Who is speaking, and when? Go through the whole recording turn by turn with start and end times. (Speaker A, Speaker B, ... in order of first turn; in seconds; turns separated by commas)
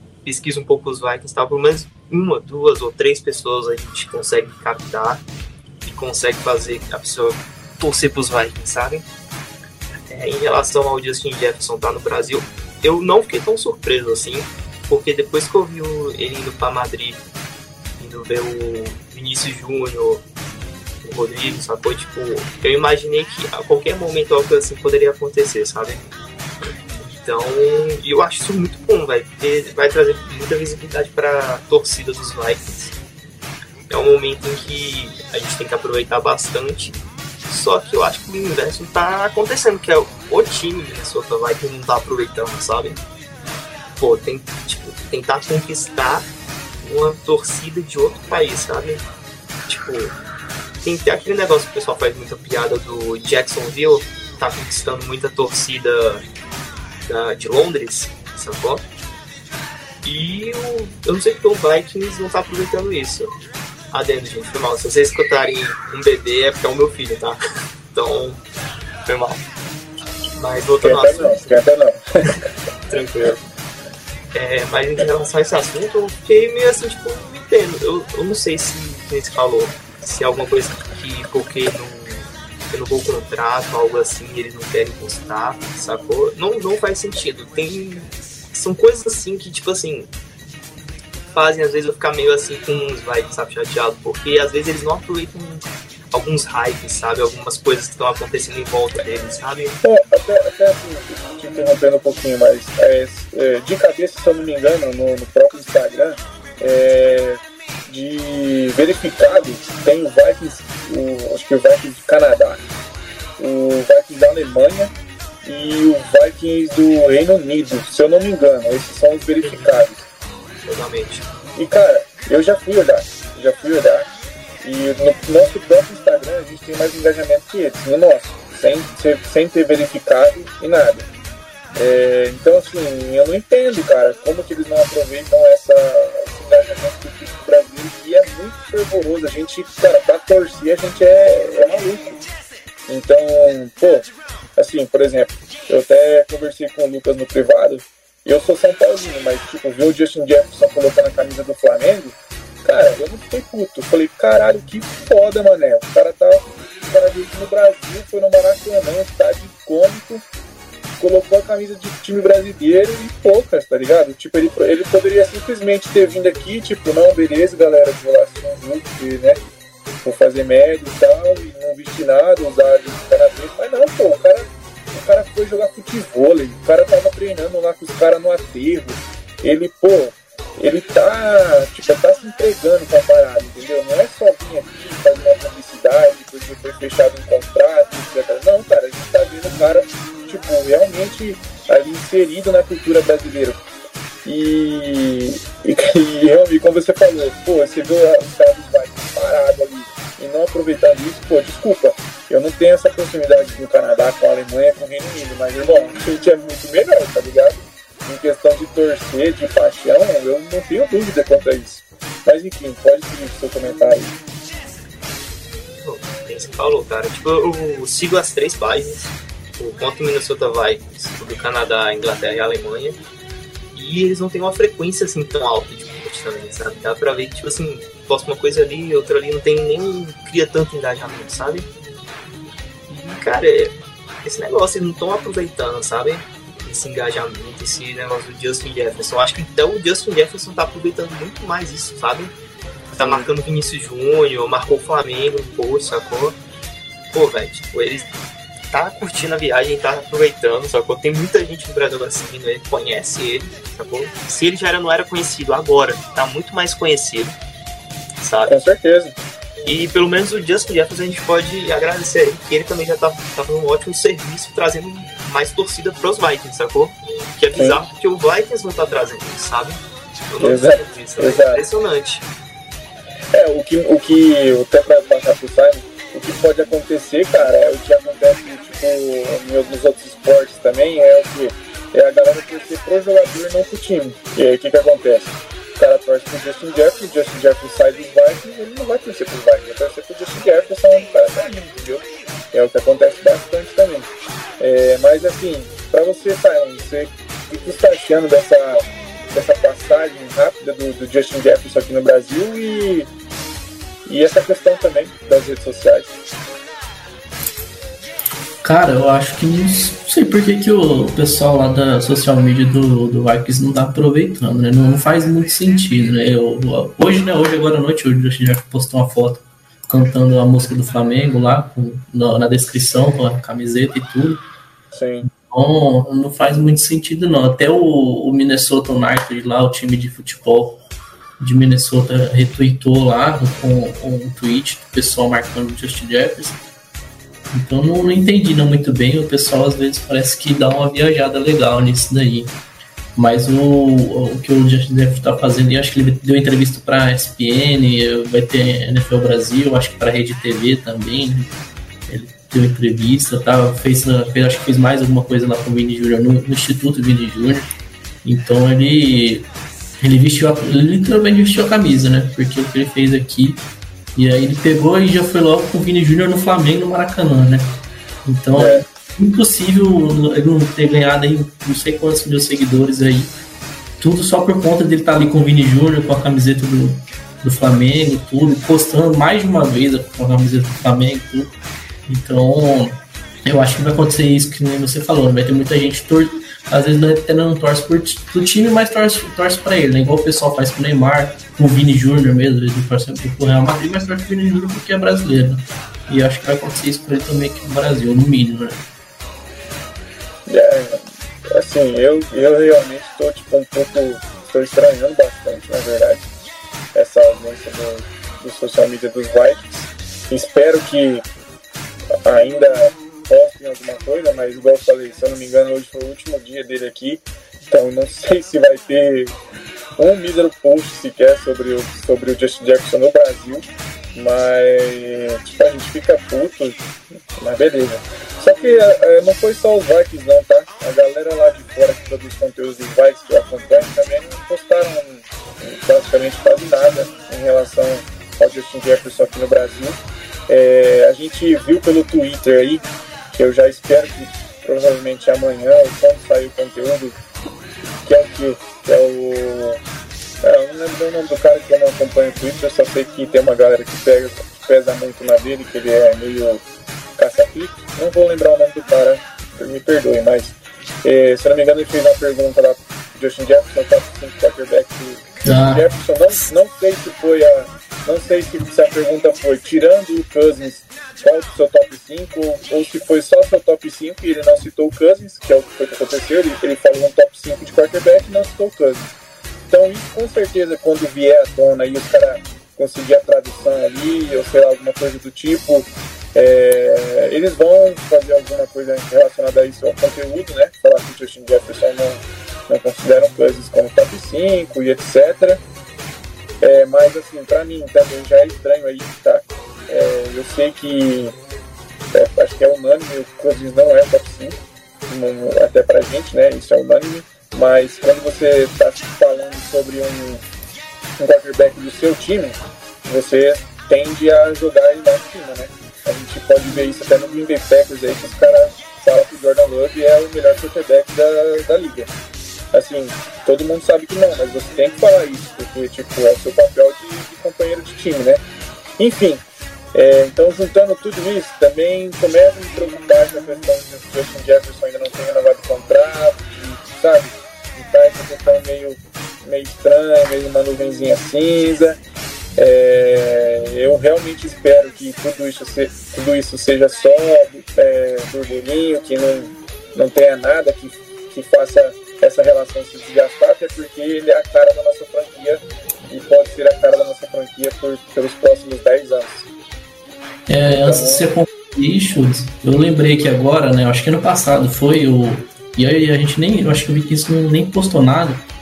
Speaker A: 0.2-5.2, Speaker A: 5.8-9.1, Speaker A: 10.1-17.2, Speaker A: 18.0-20.2, Speaker A: 21.0-26.1, Speaker A: 27.0-33.0, Speaker A: 33.9-43.0, Speaker A: 44.0-46.3, Speaker A: 46.8-49.0, Speaker A: 49.7-50.1, Speaker A: 50.8-56.2, Speaker A: 57.1-58.8, Speaker A: 60.0-63.3, Speaker A: 63.9-67.4, Speaker A: 67.9-68.4, Speaker A: 69.0-69.4, Speaker A: 70.4-71.6, Speaker B: 70.8-72.0, Speaker A: 72.9-73.4, Speaker A: 74.3-90.1, Speaker A: 91.3-99.8, Speaker B: 99.8-112.6, Speaker B: 113.4-114.9, Speaker B: 115.4-120.1, Speaker A: 119.4-119.7, Speaker A: 120.7-121.2, Speaker B: 121.6-124.1, Speaker B: 124.6-131.1, Speaker B: 131.8-142.2, Speaker B: 142.9-160.2, Speaker B: 161.0-169.4, Speaker B: 170.0-193.6, Speaker B: 194.2-214.2, Speaker A: 215.8-223.0, Speaker A: 223.7-231.7, Speaker A: 232.9-242.3, Speaker B: 242.9-243.3, Speaker A: 242.9-246.4, Speaker A: 247.1-248.1, Speaker A: 248.7-257.4, Speaker A: 258.2-258.5, Speaker B: 258.5-259.1, Speaker A: 259.6-272.3, Speaker B: 267.5-267.8, Speaker B: 270.4-271.6, Speaker B: 273.3-303.1, Speaker B: 304.1-306.1, Speaker C: 308.6-324.4, Speaker B: 324.9-325.3, Speaker C: 325.3-330.8, Speaker C: 331.4-336.6, Speaker C: 337.5-342.6, Speaker C: 343.1-351.5, Speaker C: 352.1-357.7, Speaker C: 358.2-359.5, Speaker C: 360.0-363.6, Speaker C: 364.2-373.4, Speaker B: 368.5-368.9, Speaker C: 374.0-381.5, Speaker C: 382.1-398.8, Speaker B: 400.5-406.3, Speaker B: 406.9-411.3, Speaker B: 412.2-419.4, Speaker B: 420.0-426.8, Speaker B: 427.4-447.2, Speaker B: 448.0-449.8, Speaker B: 450.4-456.6, Speaker B: 457.2-479.1, Speaker C: 465.4-465.9, Speaker B: 479.7-495.6, Speaker B: 496.6-501.4, Speaker B: 502.1-510.4, Speaker B: 511.2-522.1, Speaker B: 522.7-528.4, Speaker B: 529.0-542.0, Speaker B: 542.6-559.5, Speaker C: 560.5-568.5, Speaker B: 560.7-561.3